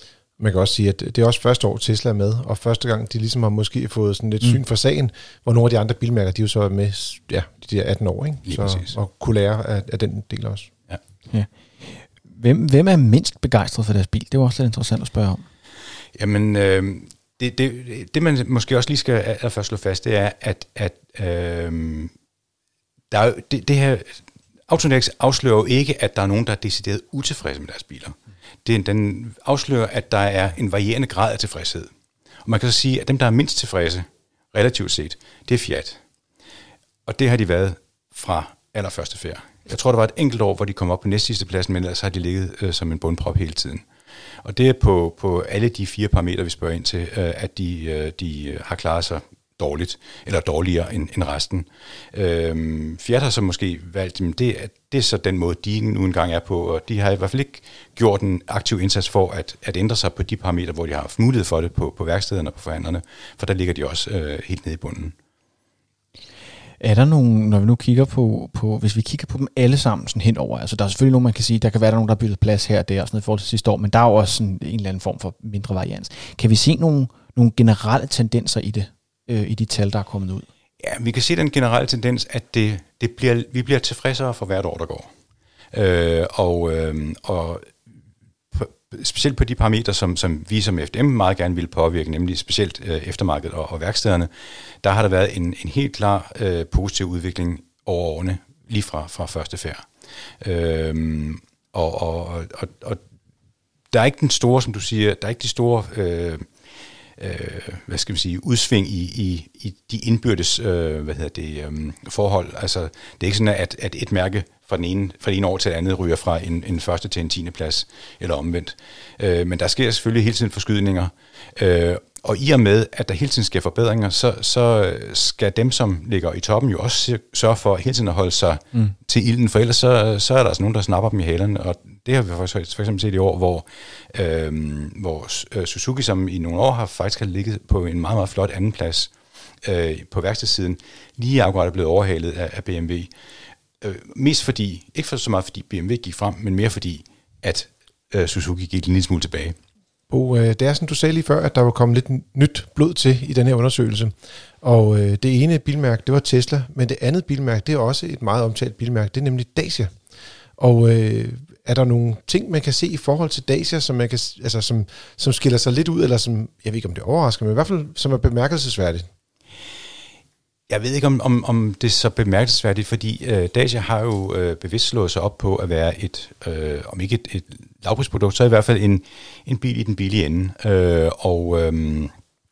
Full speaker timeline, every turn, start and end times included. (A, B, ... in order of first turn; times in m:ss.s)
0:00.4-0:10.7 A
0:08.4-0:08.9 B
0:11.3-0:15.4 C
0:16.2-0:22.1 B
0:23.1-0:31.9 B
0:32.4-0:36.0 B
0:37.1-0:43.8 B
0:44.4-1:05.1 B
1:06.8-1:20.4 C
1:20.8-1:25.1 B
1:25.7-1:27.7 B
1:28.5-1:34.3 B
1:34.8-1:39.8 B
1:40.4-1:43.0 B
1:43.9-1:46.4 B
1:47.2-2:23.1 B
2:23.8-2:29.6 B
2:30.1-2:39.9 A
2:40.6-2:49.0 A
2:50.7-3:02.1 B